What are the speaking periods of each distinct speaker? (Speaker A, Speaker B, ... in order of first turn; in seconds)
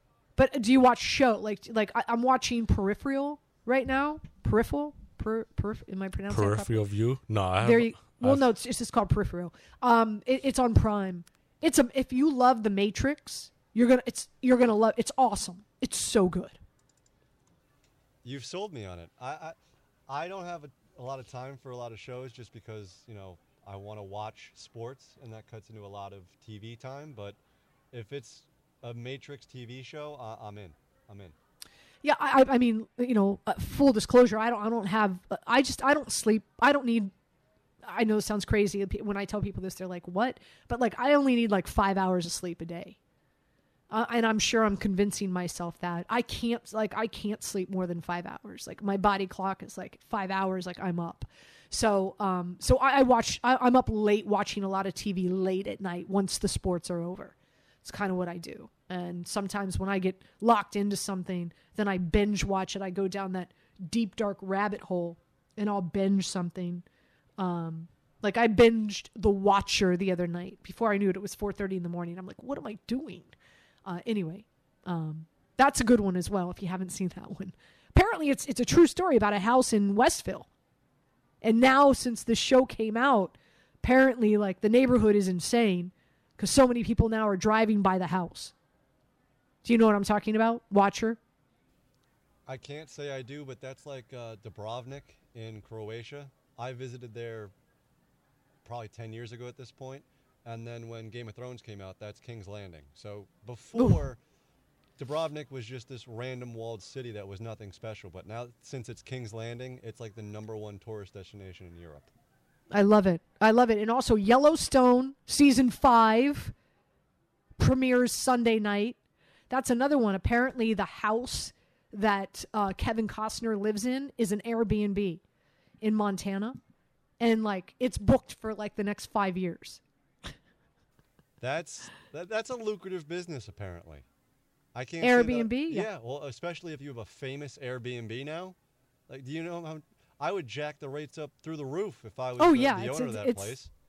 Speaker A: 0.3-6.8, 7.6-16.6, 32.0-37.1, 37.8-43.0, 43.9-66.8, 67.4-73.3, 73.8-80.5, 81.4-88.5, 89.6-91.2, 112.7-116.5, 117.6-119.0, 119.5-125.2, 125.8-126.6, 127.2-129.8, 135.0-135.9, 142.4-143.6
Speaker B: 6.3-8.5
Speaker C: 18.2-19.6, 20.1-27.4, 27.9-31.3, 92.5-97.5, 98.6-104.2, 105.0-112.1, 131.4-134.0, 134.7-138.6, 139.1-143.7